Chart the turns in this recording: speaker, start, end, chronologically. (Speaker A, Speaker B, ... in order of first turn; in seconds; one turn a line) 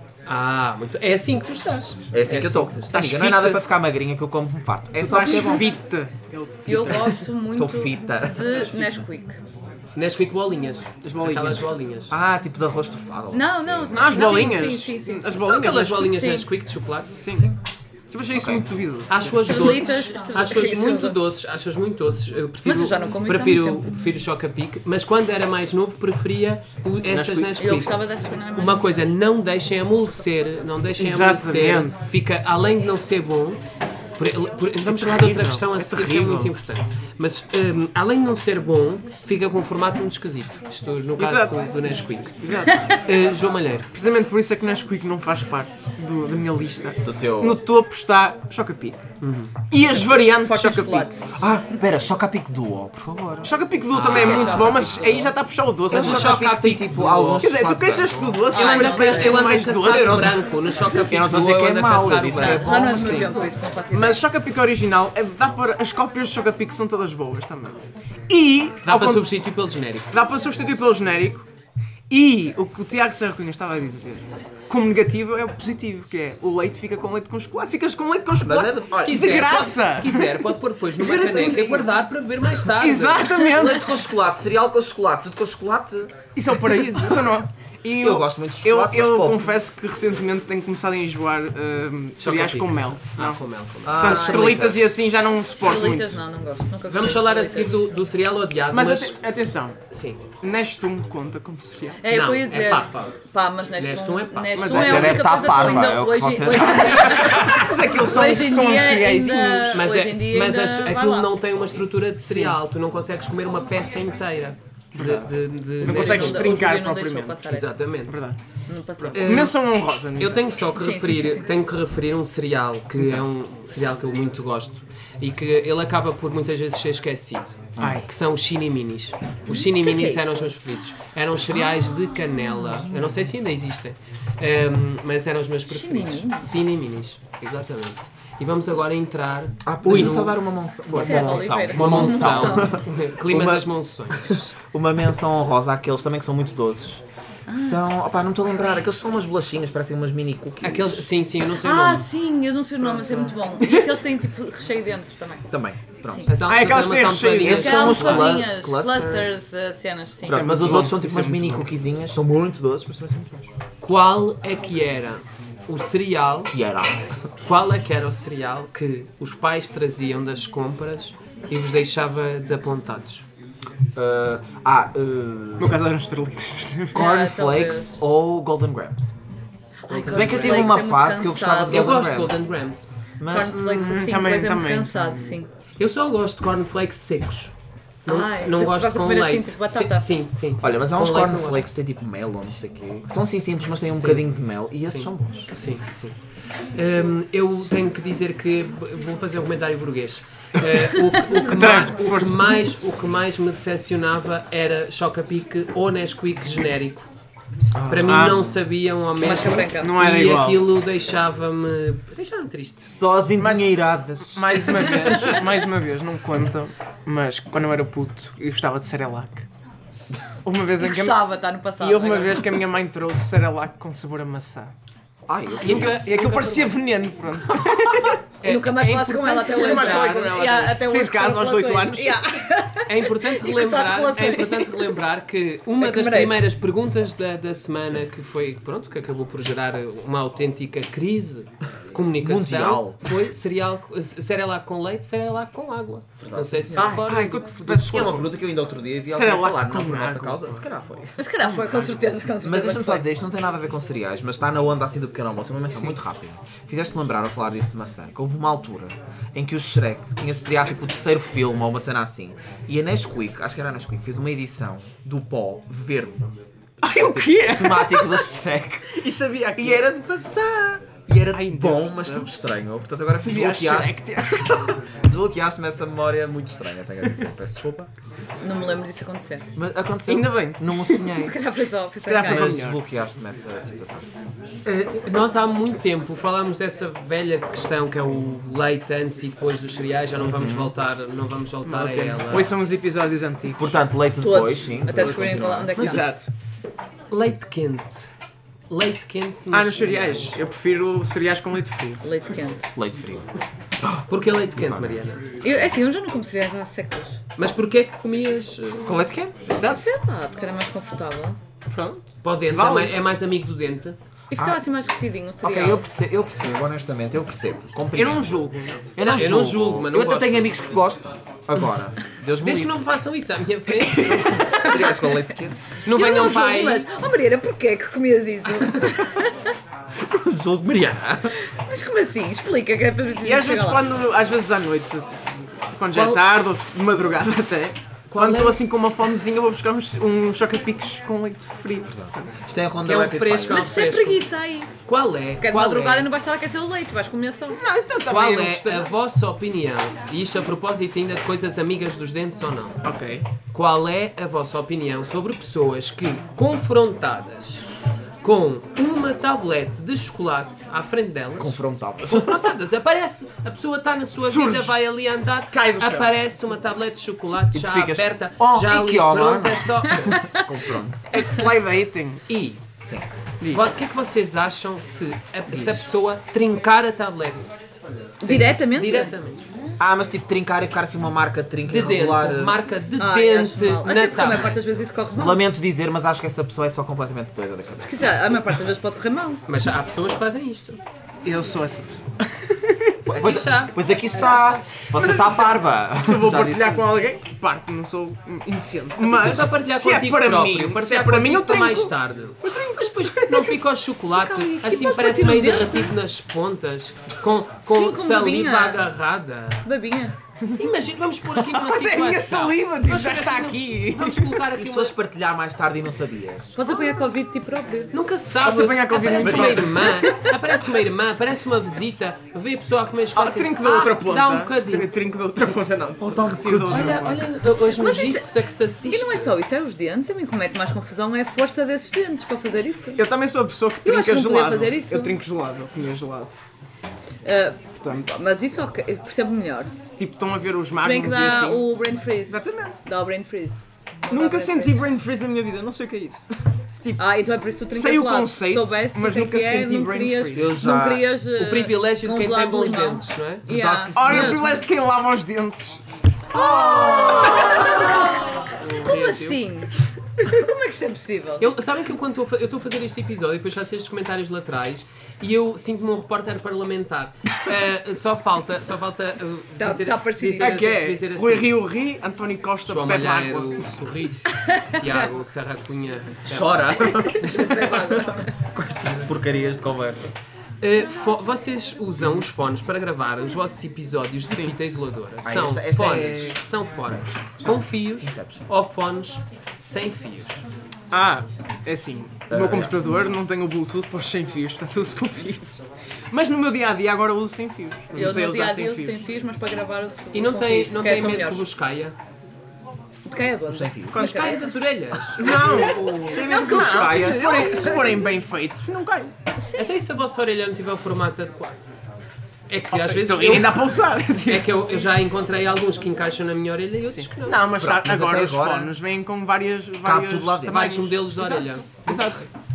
Speaker A: 0.3-2.9
Speaker B: 2.1-5.7
Speaker C: 2.9-3.6
Speaker C: 5.0-7.2
Speaker D: 6.7-9.4
Speaker B: 7.5-8.8
Speaker A: 9.9-12.1
Speaker C: 11.0-11.7
Speaker B: 12.1-14.2
Speaker D: 13.3-16.4
Speaker C: 13.9-16.1
Speaker A: 15.3-17.2
Speaker C: 17.2-17.5
Speaker B: 17.3-17.6
Speaker C: 18.1-19.8
Speaker B: 18.3-18.7
Speaker A: 19.1-28.0
Speaker D: 19.4-21.3
Speaker D: 22.6-23.9
Speaker C: 27.1-27.6
Speaker D: 27.6-29.1
Speaker A: 28.5-33.6
Speaker C: 31.0-32.0
Speaker A: 34.2-43.9
Speaker C: 34.8-36.5
Speaker C: 41.2-42.9
Speaker C: 43.9-49.0
Speaker B: 47.0-47.6
Speaker A: 49.2-49.5
Speaker C: 49.7-51.1
Speaker D: 50.0-51.2
Speaker B: 51.3-53.5
Speaker C: 53.4-56.5
Speaker A: 53.9-54.7
Speaker D: 54.0-55.3
Speaker B: 54.2-55.0
Speaker A: 55.9-57.5
Speaker B: 55.9-58.4
Speaker C: 57.4-60.4
Speaker D: 58.5-59.7
Speaker A: 58.5-63.2
Speaker B: 59.8-60.4
Speaker B: 61.1-63.3
Speaker D: 62.3-64.2
Speaker C: 63.0-63.3
Speaker C: 63.9-69.3
Speaker A: 68.8-70.1
Speaker C: 70.1-71.5
Speaker C: 72.1-80.5
Speaker B: 78.4-79.5
Speaker A: 78.9-83.5
Speaker C: 81.0-81.8
Speaker D: 81.2-81.8
Speaker C: 82.6-83.9
Speaker B: 83.5-86.3
Speaker C: 86.3-96.2
Speaker B: 88.0-89.5
Speaker A: 92.2-94.2
Speaker B: 93.8-95.0
Speaker D: 94.0-94.7
Speaker D: 95.6-97.8
Speaker A: 96.9-99.2
Speaker C: 98.7-99.8
Speaker A: 99.9-100.2
Speaker C: 100.4-102.0
Speaker D: 102.0-111.3
Speaker A: 102.1-103.2
Speaker A: 103.8-105.1
Speaker C: 104.5-105.7
Speaker B: 104.7-107.2
Speaker C: 107.2-109.8
Speaker A: 107.3-107.6
Speaker A: 109.7-116.6
Speaker C: 112.2-112.6
Speaker C: 114.9-117.5
Speaker D: 115.8-117.7
Speaker A: 117.5-118.2
Speaker C: 118.1-118.4
Speaker D: 118.7-119.5
Speaker C: 119.1-120.5
Speaker A: 119.1-119.6
Speaker A: 120.1-144.5
Speaker D: 120.7-121.5
Speaker B: 127.8-128.0
Speaker C: 127.8-128.1
Speaker D: 129.5-130.5
Speaker D: 131.8-132.1
Speaker B: 132.7-133.3
Speaker D: 135.7-136.5
Speaker B: 139.6-151.1
Speaker D: 140.9-142.8
Speaker D: 147.5-147.8
Speaker A: 150.6-152.1
Speaker D: 151.6-155.5
Speaker B: 155.5-156.3
Speaker A: 156.3-158.3
Speaker C: 156.4-158.2
Speaker B: 157.4-159.4
Speaker D: 157.5-160.7
Speaker C: 160.2-161.7
Speaker B: 160.2-163.5
Speaker A: 163.8-166.5
Speaker B: 166.5-167.1
Speaker A: 167.4-173.2
Speaker B: 173.9-175.8
Speaker C: 175.6-177.1
Speaker B: 176.9-179.1
Speaker D: 176.9-177.9
Speaker A: 179.9-180.8
Speaker D: 179.9-181.9
Speaker B: 180.1-182.6
Speaker A: 181.7-182.9
Speaker B: 183.2-183.6
Speaker D: 183.3-185.5
Speaker C: 183.5-185.3
Speaker A: 185.8-187.5
Speaker A: 188.0-191.7
Speaker D: 188.1-190.1
Speaker B: 190.6-195.5
Speaker A: 193.9-196.2
Speaker A: 196.7-207.1
Speaker C: 201.4-202.6
Speaker B: 207.7-208.5
Speaker A: 207.8-212.9
Speaker C: 208.1-208.5
Speaker D: 209.2-210.0
Speaker C: 209.8-210.7
Speaker B: 212.8-215.2
Speaker C: 213.4-213.7
Speaker C: 214.2-219.5
Speaker C: 220.4-221.2
Speaker D: 220.8-222.6
Speaker C: 221.8-224.7
Speaker B: 225.3-226.0
Speaker A: 225.6-226.8
Speaker C: 225.7-228.2
Speaker A: 228.4-230.4
Speaker D: 228.4-234.8
Speaker C: 229.5-232.2
Speaker A: 232.9-247.6
Speaker D: 235.8-236.4
Speaker B: 242.2-243.0
Speaker B: 246.2-247.0
Speaker D: 246.7-247.1
Speaker C: 247.1-248.3
Speaker B: 247.6-251.2
Speaker C: 249.1-250.5
Speaker D: 251.2-253.1
Speaker C: 251.4-251.9
Speaker B: 252.4-266.3
Speaker C: 266.8-268.3
Speaker B: 266.8-277.9
Speaker C: 268.9-269.8
Speaker C: 271.3-272.3
Speaker C: 273.2-274.5
Speaker D: 278.4-279.5
Speaker B: 279.5-281.4
Speaker C: 280.1-281.0
Speaker D: 281.1-282.6
Speaker C: 282.1-282.8
Speaker B: 282.2-284.1
Speaker A: 284.6-292.6
Speaker B: 290.2-290.7
Speaker C: 291.6-293.7
Speaker B: 293.6-296.0
Speaker D: 294.2-296.1
Speaker C: 295.8-296.3
Speaker A: 297.1-298.1
Speaker A: 298.7-300.4
Speaker C: 299.5-302.0
Speaker D: 302.0-302.7
Speaker B: 302.8-303.2
Speaker B: 303.8-305.0
Speaker A: 304.1-305.2
Speaker D: 305.4-307.2
Speaker A: 307.4-309.0
Speaker B: 308.8-309.6
Speaker C: 309.6-309.8
Speaker D: 309.6-311.4
Speaker C: 311.7-312.9
Speaker A: 312.2-314.0
Speaker D: 314.3-315.8
Speaker B: 314.3-314.6
Speaker B: 315.4-318.4
Speaker C: 317.9-318.9
Speaker B: 318.9-322.8
Speaker A: 319.0-320.8
Speaker A: 322.4-324.9
Speaker C: 323.9-324.2
Speaker B: 324.4-325.6
Speaker D: 324.5-325.2
Speaker A: 325.8-326.9
Speaker D: 325.9-329.4
Speaker B: 330.0-331.3
Speaker D: 331.4-333.9
Speaker C: 333.2-342.3
Speaker D: 335.9-336.2
Speaker A: 338.1-338.6
Speaker B: 341.9-343.7
Speaker A: 342.8-344.2
Speaker D: 343.5-344.7
Speaker A: 344.8-346.1
Speaker D: 345.4-347.6
Speaker C: 347.5-348.9
Speaker A: 348.1-352.8
Speaker C: 352.8-353.2
Speaker A: 353.5-357.7
Speaker A: 358.2-370.3
Speaker B: 361.4-362.5
Speaker C: 364.1-364.7
Speaker C: 365.5-366.1
Speaker B: 367.5-371.1
Speaker D: 370.1-370.4
Speaker C: 371.1-372.2
Speaker A: 372.3-372.6
Speaker C: 373.4-373.7
Speaker A: 373.5-377.5
Speaker B: 375.5-375.8
Speaker D: 378.2-379.1
Speaker A: 378.2-379.4
Speaker B: 379.8-382.6
Speaker A: 381.7-384.6
Speaker D: 383.0-385.4
Speaker B: 385.2-388.2
Speaker D: 387.9-389.4
Speaker A: 389.5-390.8
Speaker C: 391.2-393.0
Speaker A: 393.1-394.7
Speaker B: 393.1-397.1
Speaker C: 394.8-401.9
Speaker A: 399.0-409.7
Speaker C: 402.4-403.6
Speaker B: 404.1-404.9
Speaker D: 404.6-405.9
Speaker D: 407.6-408.8
Speaker D: 409.6-410.1
Speaker C: 410.4-410.6
Speaker A: 410.6-414.9
Speaker C: 411.3-414.5
Speaker B: 414.5-416.5
Speaker D: 416.6-417.9
Speaker A: 417.9-424.9
Speaker C: 418.4-420.5
Speaker B: 419.1-419.7
Speaker C: 423.1-427.2
Speaker B: 426.0-427.0
Speaker A: 426.7-429.3
Speaker D: 427.8-428.3
Speaker D: 428.9-433.0
Speaker C: 432.9-436.3
Speaker D: 433.8-435.2
Speaker D: 437.2-439.8
Speaker C: 437.8-438.1
Speaker C: 440.0-441.7
Speaker D: 440.8-444.8
Speaker C: 442.3-442.8
Speaker C: 444.1-446.3
Speaker D: 447.0-454.6
Speaker C: 447.7-450.6
Speaker B: 450.3-451.1
Speaker A: 451.3-453.4
Speaker B: 453.4-454.4
Speaker C: 453.9-455.8
Speaker D: 456.3-461.5
Speaker B: 456.4-457.5
Speaker A: 457.9-459.4
Speaker A: 461.4-471.5
Speaker D: 469.6-470.7
Speaker C: 470.4-473.6
Speaker A: 472.6-476.6
Speaker D: 474.6-474.9
Speaker B: 476.3-477.4
Speaker A: 477.2-478.1
Speaker D: 477.2-478.2
Speaker B: 478.5-480.1
Speaker A: 480.6-490.4
Speaker C: 484.3-484.5
Speaker B: 485.2-486.4
Speaker B: 488.0-488.4
Speaker C: 490.9-495.4
Speaker B: 492.3-492.7
Speaker C: 496.1-499.0
Speaker D: 497.9-501.4
Speaker A: 500.1-501.9
Speaker D: 503.0-504.4
Speaker B: 503.5-504.0
Speaker A: 503.9-506.6
Speaker C: 505.1-509.1
Speaker D: 505.2-505.6
Speaker B: 506.0-507.7
Speaker D: 506.5-508.0
Speaker D: 509.4-509.7
Speaker A: 509.6-511.6
Speaker A: 512.5-513.7
Speaker C: 512.7-514.5
Speaker A: 514.2-517.5
Speaker C: 516.9-522.3
Speaker B: 517.6-518.7
Speaker B: 519.8-520.7
Speaker A: 520.4-522.0